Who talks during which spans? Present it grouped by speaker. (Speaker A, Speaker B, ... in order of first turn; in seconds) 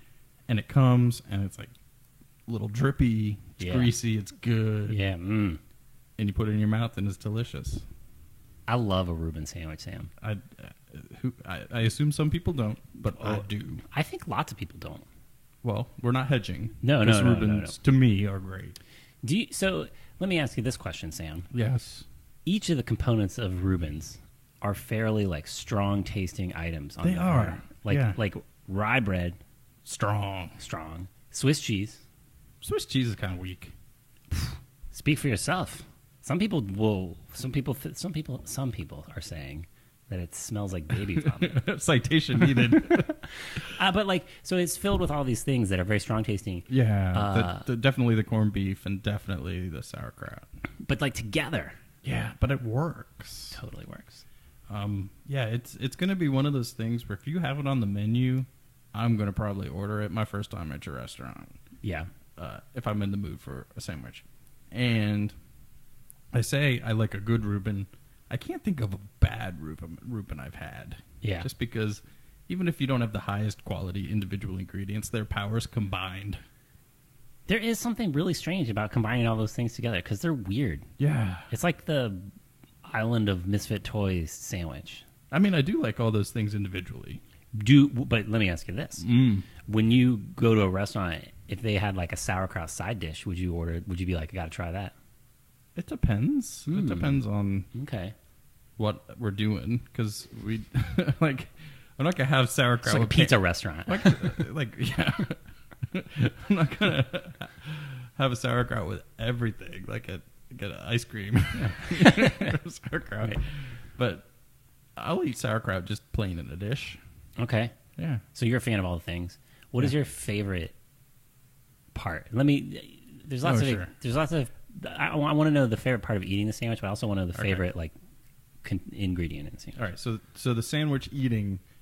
Speaker A: 0.5-1.7, 2.5-5.0, 6.2-7.8, 10.2-13.8, 15.6-18.8, 21.5-22.1, 27.0-28.2, 29.9-30.6, 32.6-33.7, 41.1-43.2, 46.7-50.5, 52.0-53.6, 54.7-61.6, 62.4-65.3, 66.3-76.4, 81.0-81.5, 85.3-87.2, 89.0-89.5, 95.8-97.7, 98.8-114.3, 115.0-117.0, 118.0-118.2, 123.4-123.9, 127.3-127.6, 129.8-131.6
Speaker B: 3.6-3.9, 4.9-5.6, 8.7-10.1, 13.2-15.1, 16.8-17.8, 19.2-21.5, 22.5-29.4, 30.6-32.0, 34.9-41.6, 42.4-47.7, 50.9-51.8, 53.5-54.2, 61.8-62.1, 71.2-71.5, 77.5-80.9, 81.5-82.3, 82.9-85.0, 87.5-89.1, 89.6-95.0, 96.7-97.2, 97.7-98.2, 102.8-104.5, 111.6-112.5, 117.4-117.8, 118.3-120.8, 121.9-127.9, 128.6-129.8